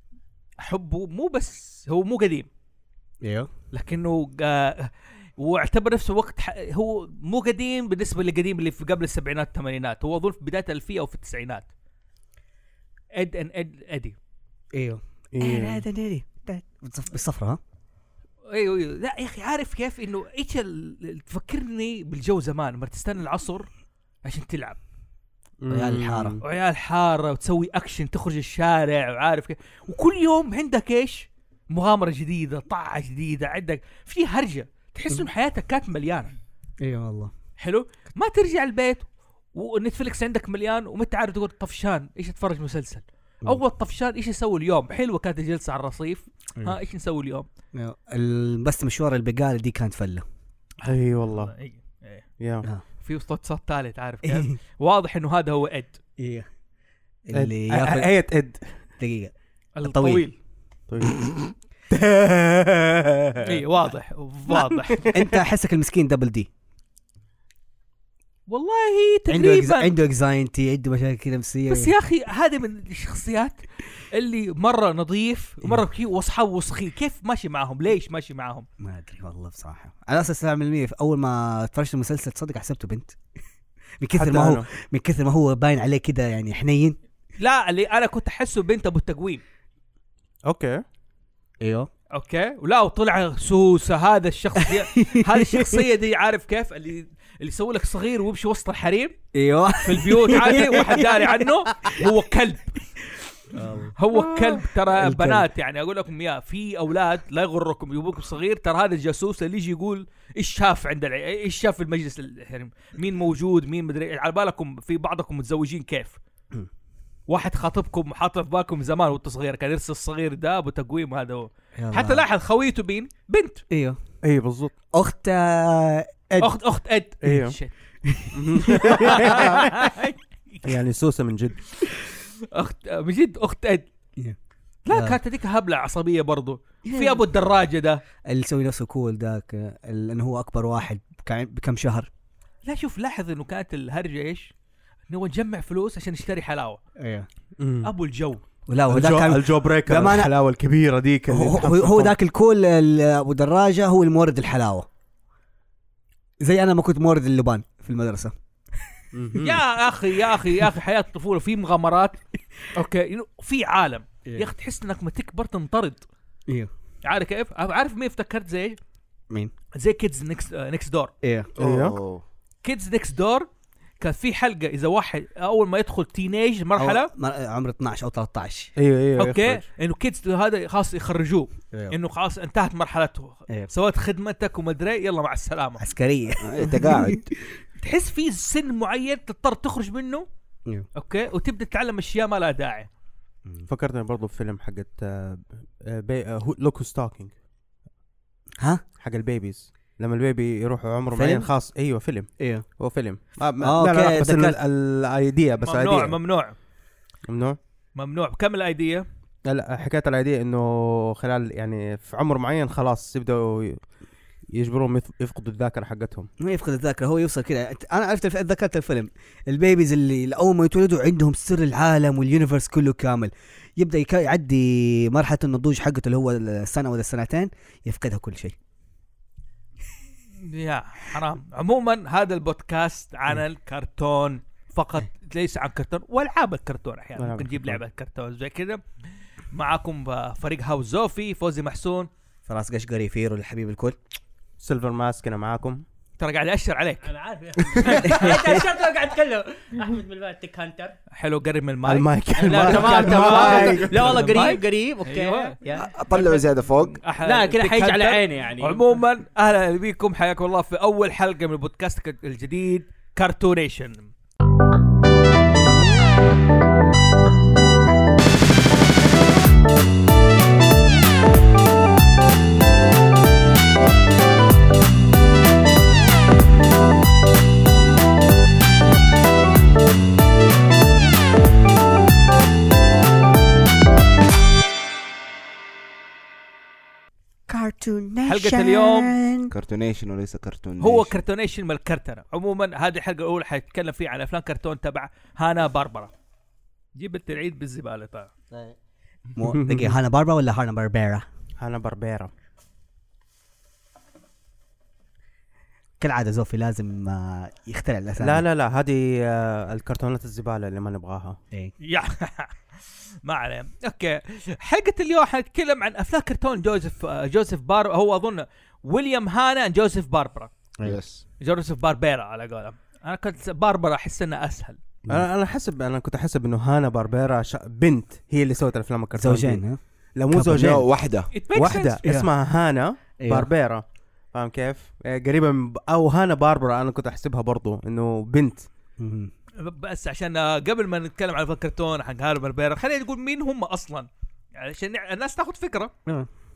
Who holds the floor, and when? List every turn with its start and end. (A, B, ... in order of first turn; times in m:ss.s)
0:00.6-0:02.5 A
0:03.2-0:03.5 B
0:03.7-0:11.7 A
0:13.2-0:14.2 A
0:14.7-0:17.6 B
0:15.3-0:15.8 C
0:18.5-0:23.7 A
0:24.2-0:24.8 A
0:25.6-0:26.4 C
0:25.7-0:26.4 B
0:26.4-0:36.3 A
0:36.8-0:37.3 B
0:37.6-0:47.5 A
0:47.7-0:50.2 B
0:50.8-0:52.2 A
0:50.8-0:51.5 C
0:52.4-0:52.7 C
0:53.0-0:56.0 A
0:54.2-0:54.6 B
0:56.2-0:56.5 B
0:57.3-0:58.1 B
0:57.3-0:58.6 C
0:59.0-0:59.3 B
0:59.8-1:00.4 A
0:59.8-1:00.2 B
1:00.9-1:03.6 C
1:03.4-1:05.1 A
1:04.5-1:05.3 C
1:05.1-1:06.5 B
1:08.5-1:09.9 A
1:09.3-1:11.9 B
1:11.7-1:18.7 A
1:18.8-1:23.2 B
1:24.0-1:27.0 B
1:24.1-1:24.7 C
1:27.4-1:29.4 A
1:30.4-1:30.8 C
1:31.6-1:31.9 B
1:32.1-1:39.2 A
1:34.6-1:35.8 B
1:39.3-1:42.1 B
1:39.8-1:42.8 A
1:43.5-1:45.5 B
1:44.0-1:56.2 A
1:57.3-2:03.6 A
2:01.8-2:02.2 B
2:03.7-2:04.0 B
2:04.2-2:04.7 C
2:04.9-2:06.5 B
2:06.4-2:07.7 A
2:07.2-2:07.6 C
2:08.0-2:09.7 B
2:08.3-2:09.7 C
2:08.8-2:10.8 A
2:10.6-2:11.6 C
2:12.5-2:13.9 A
2:14.9-2:18.0 A
2:14.9-2:15.2 B
2:16.8-2:17.2 B
2:18.2-2:22.1 B
2:22.6-2:24.5 A
2:25.1-2:26.8 A
2:27.0-2:27.3 B
2:27.6-2:27.9 C
2:27.8-2:28.4 A
2:28.7-2:30.3 B
2:28.9-2:32.1 C
2:31.3-2:34.9 B
2:36.4-2:38.3 B
2:39.1-2:39.6 C
2:39.4-2:42.2 A
2:42.7-2:46.1 A
2:44.3-2:44.5 B
2:47.0-2:48.8 A
2:49.8-2:51.1 A
2:51.2-2:51.5 B
2:51.6-2:52.0 C
2:51.6-2:52.2 D
2:52.6-2:53.5 A
2:54.0-2:57.1 A
2:56.8-2:58.7 B
2:58.8-2:59.6 C
2:59.2-3:05.9 A
3:05.8-3:07.3 B
3:06.4-3:07.2 D
3:07.8-3:10.3 A
3:11.0-3:12.9 A
3:13.7-3:17.3 C
3:19.0-3:26.2 C
3:21.1-3:21.5 B
3:22.4-3:22.7 B
3:23.6-3:24.6 B
3:25.6-3:26.6 A
3:27.3-3:27.6 C
3:28.0-3:29.1 A
3:29.5-3:33.8 C
3:34.5-3:36.3 C
3:36.4-3:48.6 B
3:50.4-3:58.8 A
3:57.2-3:57.8 C
3:59.5-4:02.1 A
4:02.5-4:04.0 B
4:04.6-4:05.8 C
4:06.2-4:07.1 A
4:07.0-4:11.0 E
4:07.6-4:08.3 A
4:08.0-4:08.6 B
4:11.1-4:15.6 A
4:11.8-4:14.2 C
4:12.4-4:15.9 E
4:15.8-4:17.0 D
4:16.1-4:24.1 A
4:17.2-4:19.0 E
4:47.5-4:49.5 B
4:48.2-4:49.2 A
4:49.5-4:51.2 D
4:50.8-4:56.1 A
4:57.0-4:58.3 A
4:59.4-5:01.2 B
4:59.4-4:59.9 C
5:01.6-5:02.3 C
5:06.0-5:08.4 B
5:08.2-5:11.4 C
5:11.8-5:12.6 A
5:13.2-5:20.5 A
5:20.8-5:21.2 D
5:21.4-5:24.8 A
5:25.1-5:29.6 C
5:29.2-5:29.8 B
5:30.2-5:30.9 C
5:30.3-5:30.8 B
5:30.5-5:31.3 D
5:31.3-5:32.0 A
5:31.4-5:38.7 C
5:32.0-5:32.3 B
5:33.2-5:33.5 B
5:39.0-5:39.3 B
5:39.6-5:45.9 A